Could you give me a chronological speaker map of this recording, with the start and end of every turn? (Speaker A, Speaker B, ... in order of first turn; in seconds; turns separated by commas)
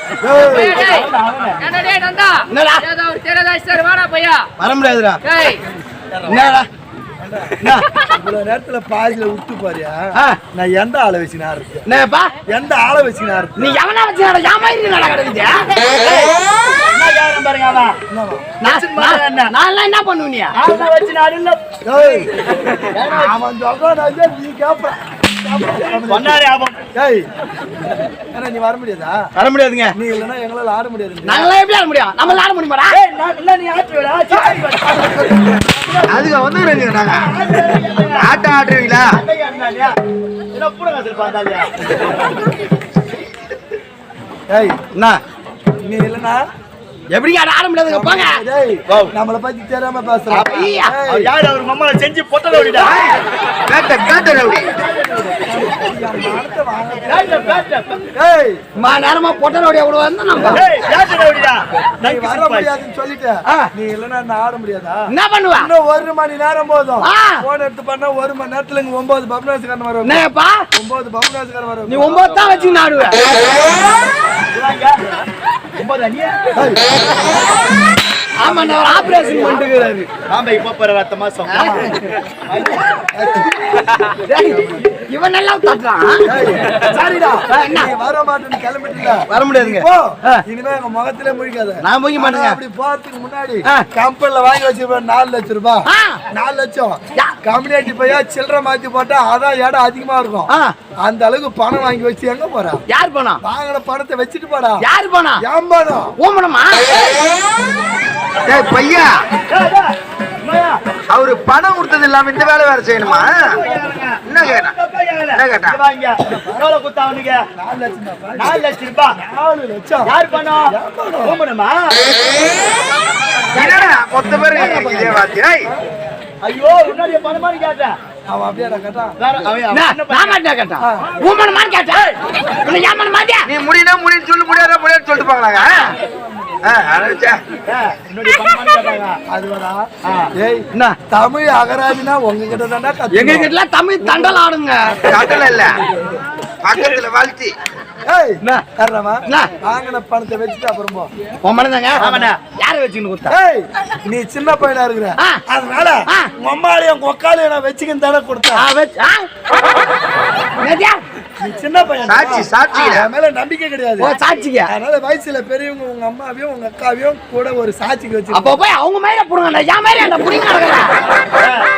Speaker A: 0.2-0.9, Speaker B: 0.5-1.6, Speaker C: 1.6-4.5, Speaker D: 2.5-2.9, Speaker D: 4.6-5.2, Speaker C: 5.2-5.6, Speaker D: 6.2-6.7, Speaker A: 7.2-7.5, Speaker A: 8.1-11.8, Speaker D: 11.8-12.3, Speaker A: 12.5-13.7, Speaker D: 13.6-15.7, Speaker B: 16.0-16.3, Speaker B: 16.9-17.9, Speaker A: 18.1-18.5, Speaker D: 18.6-20.5, Speaker B: 18.6-19.5, Speaker B: 20.5-22.3, Speaker A: 21.8-22.3, Speaker B: 22.9-23.4, Speaker A: 23.1-26.4, Speaker B: 25.9-26.8, Speaker A: 26.9-27.3, Speaker A: 28.3-29.2, Speaker D: 29.4-29.9, Speaker A: 29.9-31.5, Speaker D: 31.2-33.0, Speaker B: 32.9-36.3, Speaker A: 34.3-35.5, Speaker E: 36.1-37.5, Speaker B: 37.1-38.4, Speaker E: 38.1-39.2, Speaker B: 39.0-39.9, Speaker B: 40.5-42.0, Speaker A: 44.5-44.8, Speaker D: 44.9-45.2, Speaker A: 45.8-46.4, Speaker D: 47.1-48.4, Speaker A: 47.9-51.3, Speaker B: 50.3-53.1, Speaker D: 50.4-50.9, Speaker E: 52.9-54.7, Speaker B: 54.4-55.4, Speaker A: 55.3-57.6, Speaker B: 57.1-58.0, Speaker A: 58.1-58.6, Speaker D: 58.8-60.6, Speaker A: 60.4-60.6, Speaker B: 60.5-62.7, Speaker A: 62.0-70.2, Speaker D: 65.1-65.7, Speaker D: 67.0-67.4, Speaker D: 70.0-70.7, Speaker A: 70.7-72.3, Speaker D: 71.9-73.3, Speaker B: 74.5-75.0, Speaker B: 75.8-76.4, Speaker A: 76.5-76.8, Speaker D: 78.4-80.1, Speaker B: 78.4-79.1, Speaker A: 79.0-79.6, Speaker B: 80.3-81.9, Speaker D: 81.5-81.9, Speaker A: 81.6-81.9, Speaker B: 82.5-82.8, Speaker A: 83.1-83.9, Speaker D: 84.0-86.6, Speaker A: 84.5-84.8, Speaker A: 86.2-100.5, Speaker D: 87.5-87.9, Speaker D: 89.3-90.4, Speaker D: 91.8-92.6, Speaker D: 95.8-96.2, Speaker D: 100.5-100.7, Speaker A: 101.0-102.8, Speaker D: 102.9-103.4, Speaker A: 103.4-104.8, Speaker D: 104.8-105.4, Speaker A: 105.4-106.1, Speaker D: 106.2-107.0, Speaker E: 108.5-109.2, Speaker B: 109.5-109.9, Speaker B: 110.4-110.8, Speaker E: 111.1-113.6, Speaker B: 113.0-117.4, Speaker E: 114.2-114.7, Speaker E: 115.3-115.8, Speaker A: 116.3-116.6, Speaker A: 117.5-120.1, Speaker B: 118.3-119.2, Speaker B: 120.0-122.4, Speaker A: 120.7-121.4, Speaker E: 123.5-125.7, Speaker A: 124.4-125.7, Speaker B: 126.4-128.0, Speaker A: 128.3-129.2, Speaker B: 129.2-130.4, Speaker D: 129.7-133.5, Speaker A: 130.8-131.1, Speaker E: 133.4-135.9, Speaker E: 136.6-137.4, Speaker B: 137.7-139.2, Speaker A: 139.3-144.4, Speaker D: 143.1-145.0, Speaker E: 145.0-145.8, Speaker E: 146.6-147.5, Speaker A: 148.1-151.1, Speaker D: 149.2-149.5, Speaker D: 151.4-153.3, Speaker A: 152.0-152.3, Speaker B: 152.0-152.4, Speaker A: 153.3-158.7, Speaker D: 158.5-159.3, Speaker D: 160.6-161.0, Speaker A: 161.4-164.1, Speaker E: 162.0-163.1, Speaker D: 162.7-163.0, Speaker D: 164.0-164.7, Speaker A: 164.7-168.6, Speaker D: 168.3-171.0, Speaker B: 171.3-171.6